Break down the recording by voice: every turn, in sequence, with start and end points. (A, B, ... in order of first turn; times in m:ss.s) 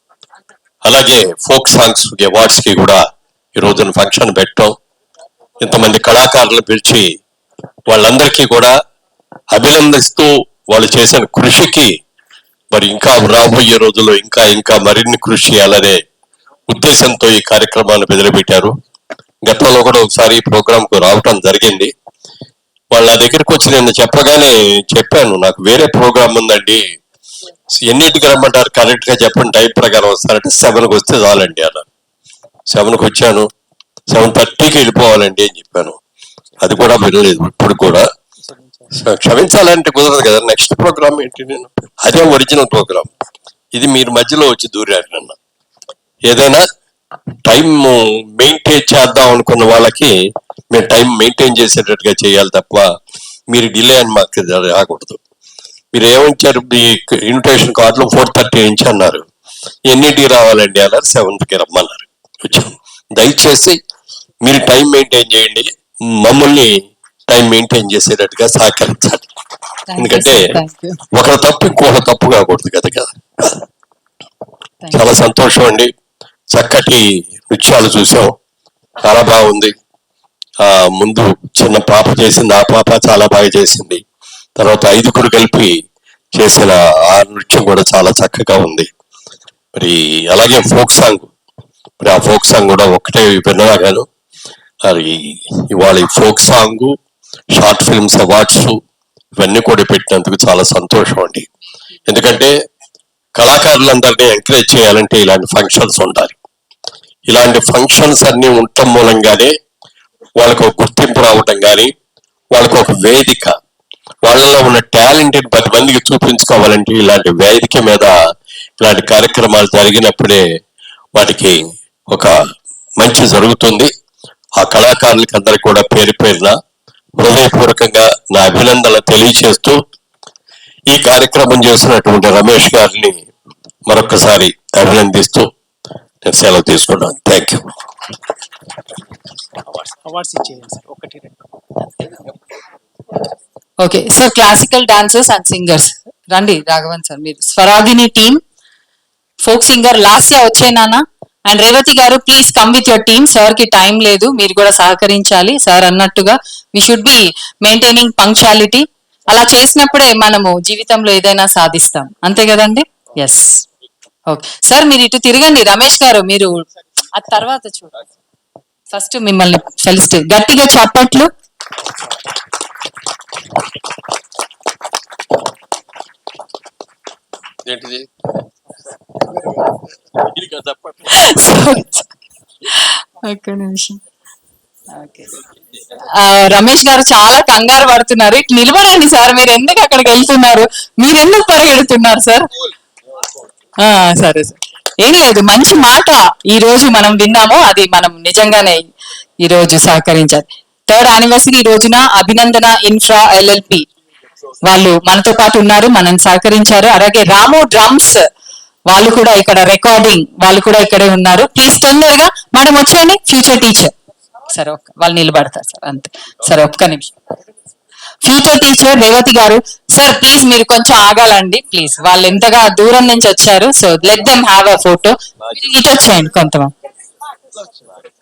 0:00.8-0:03.0 A
0:03.6-0:04.7 A
0:05.6-0:07.1 A
0:07.9-0:08.7 A
0:09.5-0:11.9 A
0:12.7-0:16.0 A
0:16.7-0:18.7 A
0:19.4-0:21.9 A
0:22.9-0:26.8 A
0:27.8-0:31.9 A
0:32.7-0:33.5 A
0:34.1-0:36.0 A
0:36.6-0:38.1 A
0:38.5-0:38.9 B
0:38.9-0:43.1 A
0:43.7-0:45.4 A
0:46.2-0:46.6 A
0:47.4-0:50.1 A
0:50.7-0:52.9 A
0:53.5-0:55.2 A
0:55.9-0:59.2 A
0:59.8-1:03.8 A
1:04.4-1:09.2 A
1:09.9-1:11.0 C
1:10.0-1:10.5 A
1:11.1-1:13.6 A
1:14.8-1:15.1 C
1:14.9-1:15.9 A
1:16.5-1:18.3 A
1:19.0-1:19.7 A
1:20.6-1:24.0 A
1:24.6-1:25.7 A
1:26.3-1:28.9 A
1:29.8-1:31.3 A
1:32.0-1:34.0 A
1:34.8-1:37.0 A
1:37.5-1:38.8 A
1:39.4-1:41.5 A
1:42.1-1:42.5 A
1:43.4-1:46.4 A
1:47.3-1:49.5 A
1:50.4-1:51.9 A
1:52.5-1:53.5 A
1:54.2-1:58.1 A
1:58.8-2:00.4 A
2:01.1-2:02.3 A
2:03.0-2:03.9 A
2:04.6-2:06.6 A
2:07.2-2:09.8 A
2:10.9-2:13.2 A
2:13.9-2:15.5 A
2:16.2-2:17.7 A
2:19.7-2:21.4 B
2:23.8-2:28.4 C
2:29.4-2:43.6 C
2:44.3-2:48.0 C
2:48.9-2:51.3 C
2:57.6-2:58.1 A
3:00.2-3:01.2 A
3:01.1-3:02.1 C
3:02.6-3:04.0 C
3:05.0-3:05.4 C
3:06.0-3:12.5 C
3:13.8-3:18.9 C
3:19.4-3:23.8 C
3:24.6-3:28.2 C
3:28.9-3:33.9 C
3:34.5-3:37.1 C
3:38.2-3:46.7 C